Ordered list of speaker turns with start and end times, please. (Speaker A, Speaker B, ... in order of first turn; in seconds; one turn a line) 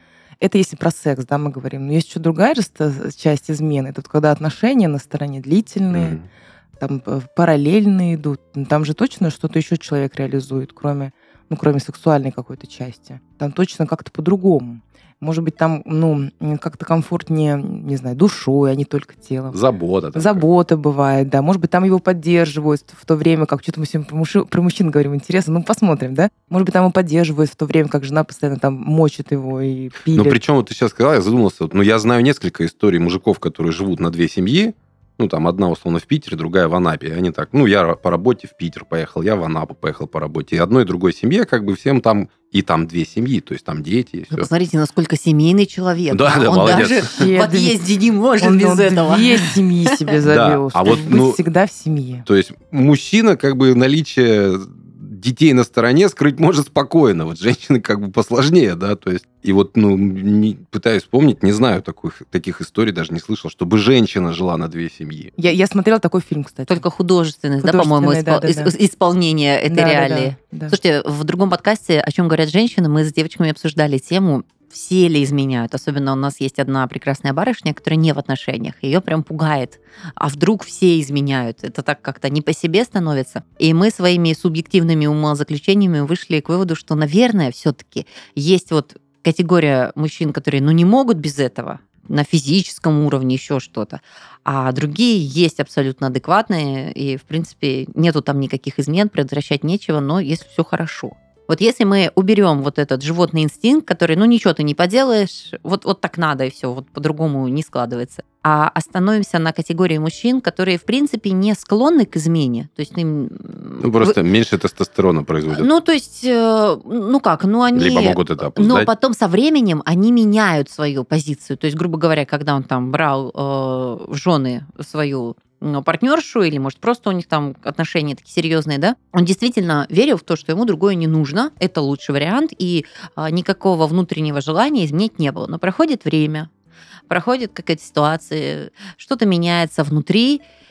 Speaker A: 0.4-6.2
Speaker B: 5.9-6.2
Speaker A: 6.8-19.6
Speaker B: 19.5-20.4
Speaker A: 20.1-30.4
Speaker B: 30.1-44.5
Speaker C: 44.3-50.1
Speaker B: 46.1-47.1
Speaker A: 47.0-47.8
Speaker A: 48.4-52.3
Speaker B: 50.3-51.4
Speaker B: 52.3-65.3
Speaker A: 65.4-66.8
Speaker C: 66.7-114.2
Speaker A: 67.6-68.7
Speaker A: 69.7-70.8
Speaker B: 113.8-115.7
Speaker C: 115.5-136.5
Speaker B: 117.7-118.9
Speaker C: 137.1-140.4